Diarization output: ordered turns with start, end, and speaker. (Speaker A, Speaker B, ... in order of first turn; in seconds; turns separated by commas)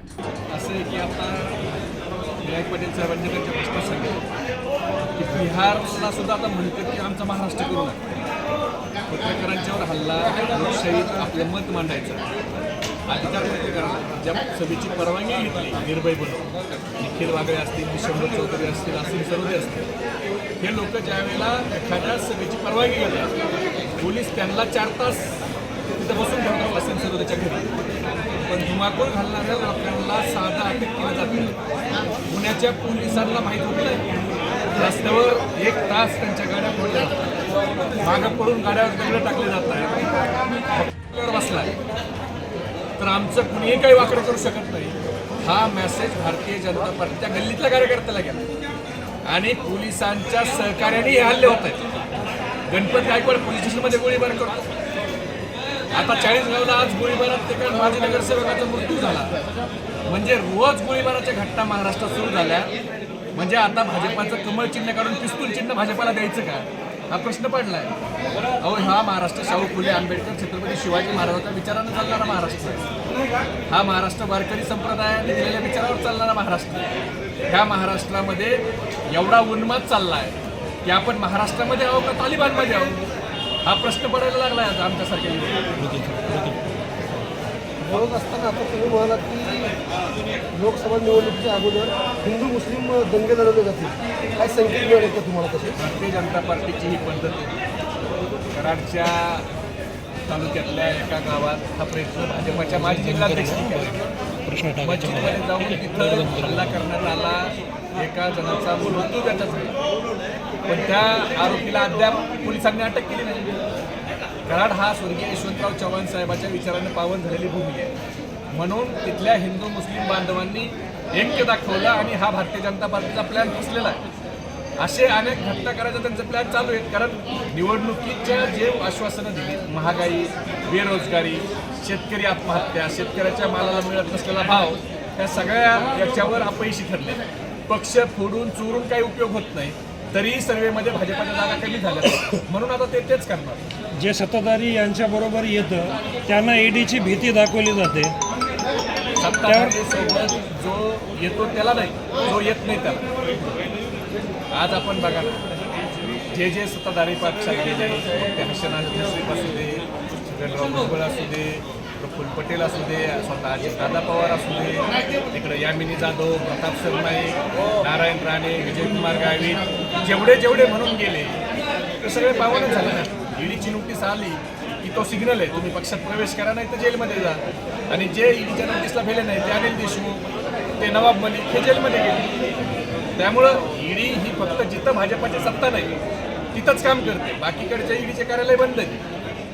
Speaker A: 0.5-1.6, Speaker A: 2.4-4.2, Speaker A: 5.2-8.0, Speaker A: 9.1-12.3, Speaker A: 13.1-19.8, Speaker A: 20.6-23.3, Speaker A: 24.0-25.4, Speaker A: 25.9-27.7, Speaker A: 28.4-31.6, Speaker A: 32.3-34.0, Speaker A: 34.7-37.2, Speaker A: 38.0-40.0, Speaker A: 40.7-41.7, Speaker A: 43.0-48.5, Speaker A: 49.3-51.8, Speaker A: 52.7-54.6, Speaker A: 55.9-59.4, Speaker A: 60.1-62.7, Speaker A: 63.3-67.9, Speaker A: 68.6-72.9, Speaker A: 73.7-83.0, Speaker A: 83.6-85.7, Speaker B: 86.0-86.5, Speaker C: 87.8-89.8, Speaker C: 90.5-95.8, Speaker A: 95.8-97.6, Speaker A: 98.5-99.5, Speaker A: 100.3-104.0, Speaker B: 103.1-103.7, Speaker B: 104.5-105.4, Speaker A: 104.8-109.8, Speaker B: 106.2-106.6, Speaker A: 110.7-113.5, Speaker A: 114.5-117.9, Speaker A: 118.5-124.0, Speaker A: 124.8-143.6, Speaker B: 144.0-148.2, Speaker A: 149.2-153.1, Speaker B: 149.4-149.8, Speaker A: 154.5-155.4, Speaker A: 156.3-171.4, Speaker A: 172.0-180.2, Speaker A: 180.8-182.3, Speaker A: 183.2-185.9, Speaker A: 186.5-189.0